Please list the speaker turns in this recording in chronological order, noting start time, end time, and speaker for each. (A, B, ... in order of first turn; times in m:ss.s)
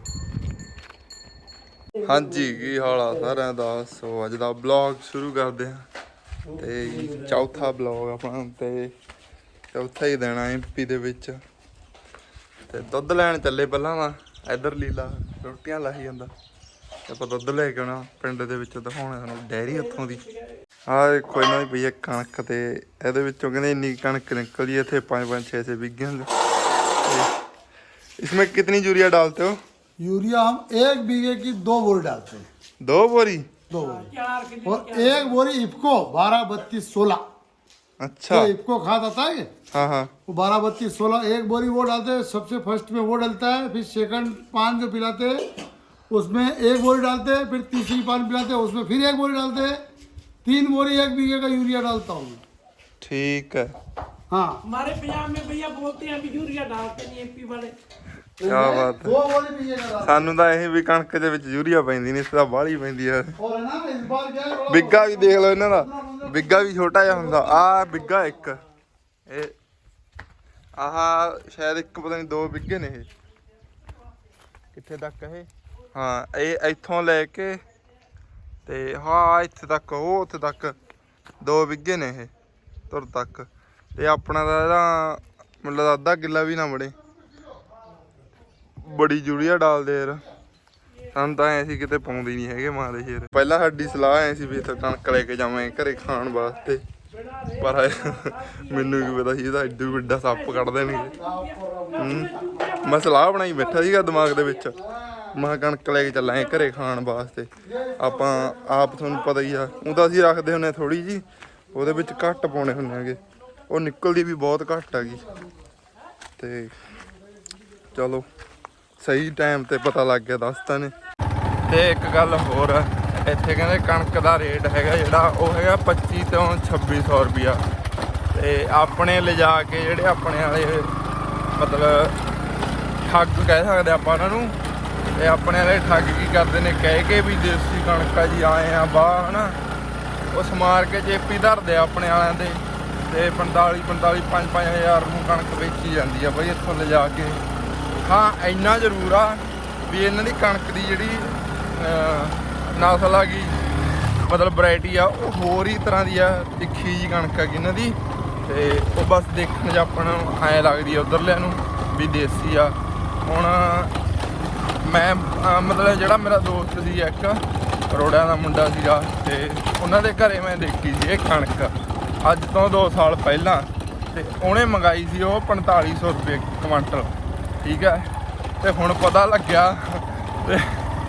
0:02.0-0:05.8 A
0:06.6-0:08.9 A
0:09.7-0:11.4 A
0:12.7-0:16.3 A
0:17.1-0:20.2 A
0:20.9-0:26.3 A
0:27.0-0:27.3 A
0:28.2-0:29.6 A
0:30.0-0:32.4 B
0:32.8-0:33.5 A
0:33.7-0:37.2 B
0:34.2-0:34.6 C
0:38.0-0:38.5 A
0:38.3-0:39.5 B
0:39.7-0:40.1 A
0:40.3-0:45.4 B
0:46.1-0:49.8 B
0:50.4-0:52.4 B
0:53.0-0:53.7 A
0:54.3-0:54.6 B
0:54.7-0:57.8 C
0:58.4-1:00.3 B
0:58.4-0:59.2 A
1:00.0-1:03.4 A
1:03.4-1:07.8 B
1:04.7-1:08.6 A
1:09.3-1:09.5 A
1:10.8-1:13.1 A
1:14.7-1:17.6 A
1:18.7-1:20.8 A
1:21.4-1:22.3 A
1:22.9-1:26.9 A
1:28.8-1:30.2 A
1:31.1-1:36.8 A
1:37.6-1:41.2 A
1:41.2-1:42.0 B
1:42.0-1:44.8 A
1:45.3-1:55.3 A
1:56.4-1:56.7 A
1:57.9-1:58.3 A
1:59.0-2:00.9 A
2:01.7-2:07.6 A
2:08.3-2:10.9 A
2:11.5-2:12.2 A
2:13.0-2:14.6 A
2:15.2-2:19.6 A
2:20.3-2:27.4 A
2:28.0-2:33.6 A
2:34.2-2:43.9 A
2:44.8-3:00.9 A